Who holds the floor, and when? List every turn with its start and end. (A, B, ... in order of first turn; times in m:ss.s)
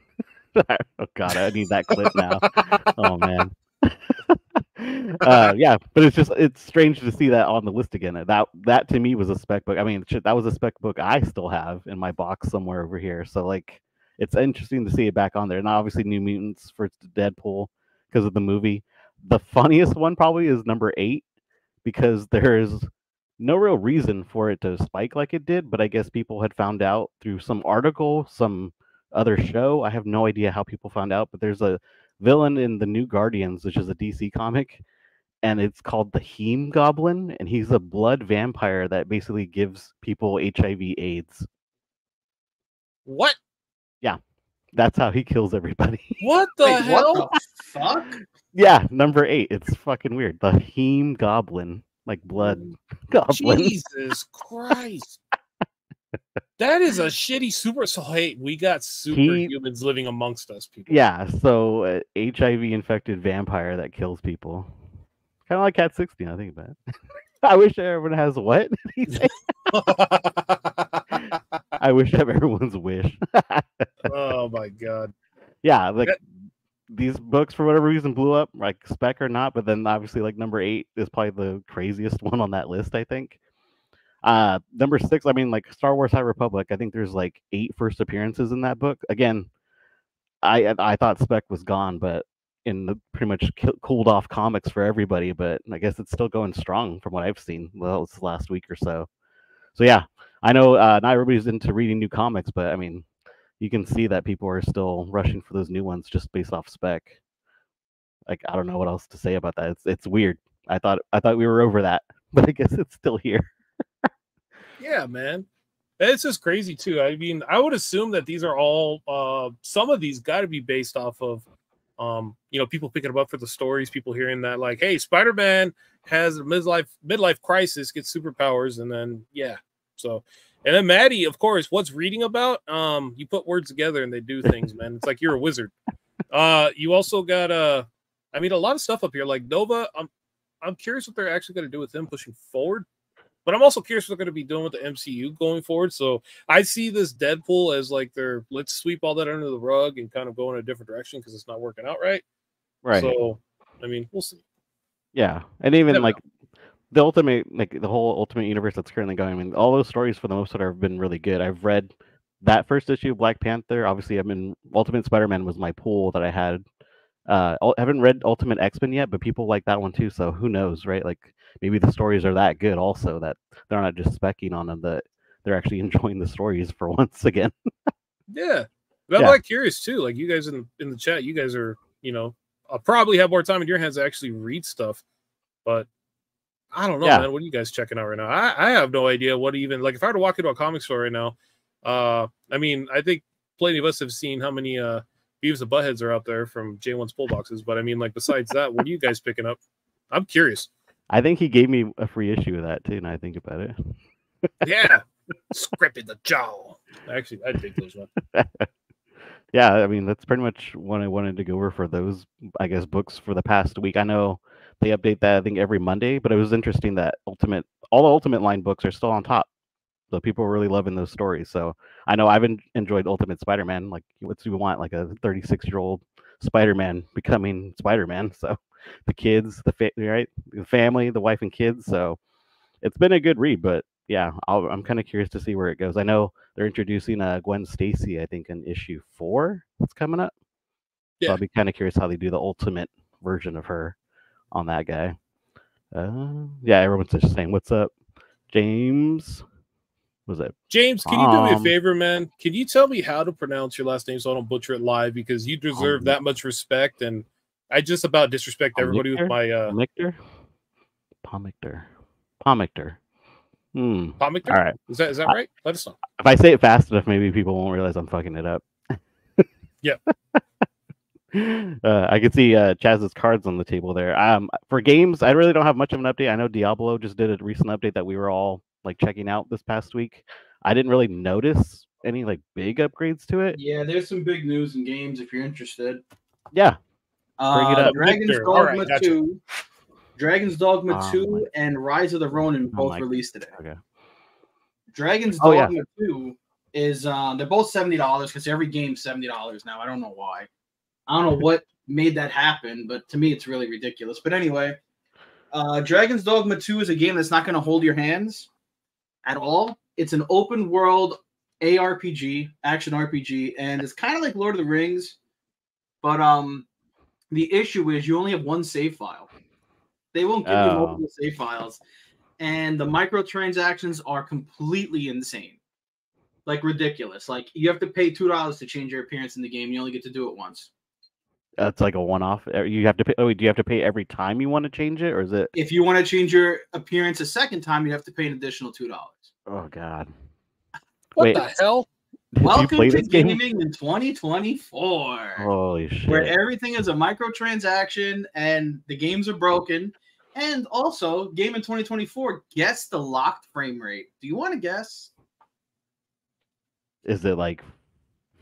0:00.6-0:21.2 A
0:02.0-0:02.7 B
0:21.8-0:22.9 A
0:23.4-0:34.8 A
0:35.4-0:41.4 A
0:43.1-0:43.4 B
0:44.8-0:46.2 A
0:46.2-0:47.3 B
0:46.6-0:48.2 C
0:48.5-0:53.7 A
0:52.4-0:52.8 B
0:53.3-0:55.2 B
0:56.6-1:01.0 B
0:59.1-0:59.5 A
1:00.9-1:04.8 A
1:05.5-1:06.8 A
1:07.4-1:09.3 A
1:09.7-1:11.2 B
1:11.8-1:13.9 A
1:14.0-1:15.1 B
1:15.6-1:16.2 A
1:16.9-1:23.4 A
1:24.2-1:29.5 A
1:30.4-1:39.1 A
1:39.8-1:43.1 A
1:43.6-1:47.2 A
1:48.2-1:53.5 A
1:54.8-1:55.5 B
1:56.0-2:01.4 B
2:02.0-2:15.7 B
2:16.3-2:20.1 B
2:20.6-2:22.9 B
2:23.4-2:32.2 B
2:32.8-2:33.1 A
2:32.9-2:34.4 B
2:35.1-2:36.2 A
2:35.9-2:36.2 B
2:36.9-2:46.6 A
2:47.3-2:57.5 A
2:58.3-3:05.0 B
3:06.7-3:19.6 B
3:20.1-3:20.7 B
3:21.1-3:23.9 A
3:24.6-3:28.1 B
3:28.3-3:28.7 A
3:29.5-3:39.5 A
3:40.1-3:52.2 A
3:52.8-4:00.3 A
4:01.3-4:04.0 A
4:04.5-4:05.2 A
4:05.9-4:07.9 A
4:08.5-4:09.4 A
4:10.3-4:11.7 A
4:10.7-4:19.8 B
4:15.8-4:16.1 A
4:18.8-4:20.2 A
4:21.2-4:21.9 A
4:22.4-4:23.0 A
4:23.8-4:24.8 A
4:24.2-4:26.0 B
4:26.2-4:29.5 A
4:31.3-4:43.6 A
4:43.5-4:46.0 C
4:46.5-4:46.8 A
4:47.4-4:49.4 C
4:47.5-4:48.0 A
4:47.8-4:49.2 B
4:50.2-4:53.5 C
4:50.9-4:51.5 A
4:52.7-4:53.8 A
4:54.9-5:00.5 C
4:55.4-4:55.7 A
5:01.1-5:04.8 C
5:05.5-5:08.5 C
5:09.2-5:15.2 C
5:16.0-5:16.6 C
5:17.3-5:19.3 C
5:20.1-5:21.8 C
5:20.4-5:21.0 A
5:22.4-5:25.6 C
5:26.5-5:30.7 C
5:31.6-5:35.5 A
5:35.5-5:39.3 C
5:39.5-5:40.1 A
5:41.2-5:41.4 A
5:41.2-5:41.9 B
5:42.3-5:43.4 A
5:42.4-5:45.5 C
5:45.4-5:46.4 A
5:46.0-5:55.1 C
5:57.0-5:57.6 A